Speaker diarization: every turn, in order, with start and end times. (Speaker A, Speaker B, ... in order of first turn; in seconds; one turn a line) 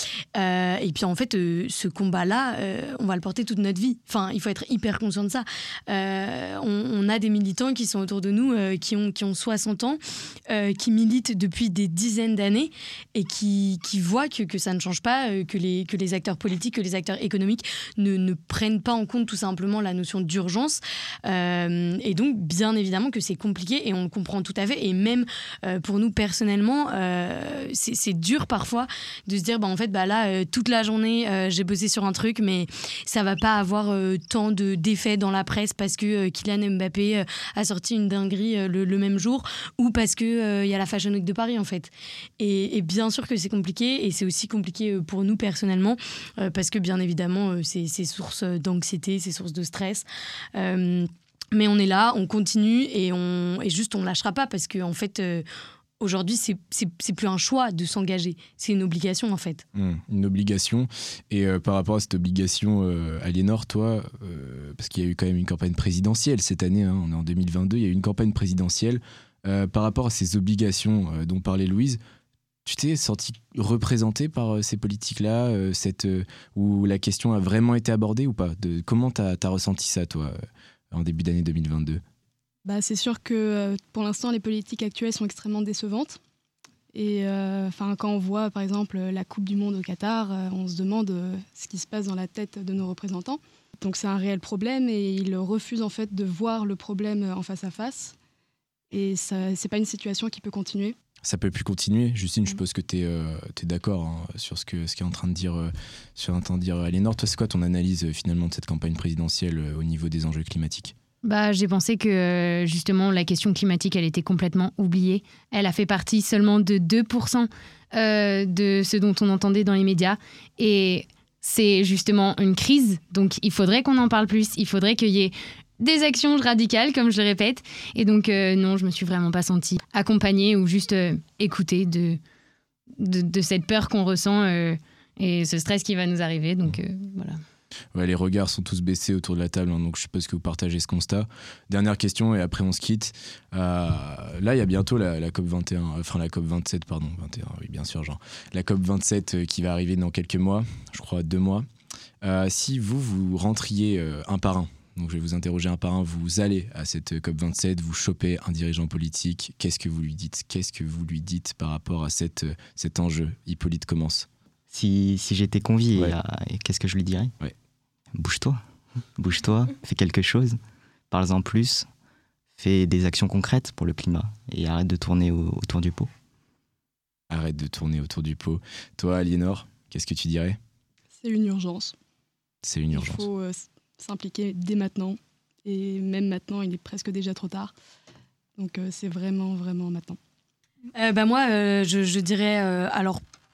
Speaker A: 0.3-55.4
Speaker A: 56.0-59.6
Speaker B: 59.7-72.0
Speaker B: 72.6-80.4
Speaker B: 80.9-82.0
Speaker C: 82.6-86.2
Speaker C: 86.9-98.1
Speaker C: 98.9-101.0
Speaker B: 101.2-110.9
Speaker D: 111.2-132.2
Speaker D: 133.0-137.4
Speaker B: 137.9-151.7
Speaker B: 152.2-164.3
Speaker E: 164.7-167.3
Speaker E: 168.1-168.6
Speaker E: 169.2-170.6
Speaker E: 171.1-171.9
Speaker E: 172.6-176.1
Speaker B: 177.3-180.6
Speaker C: 181.1-181.9
Speaker B: 182.6-183.3
Speaker C: 182.9-187.7
Speaker C: 188.6-190.2
Speaker A: 190.9-193.2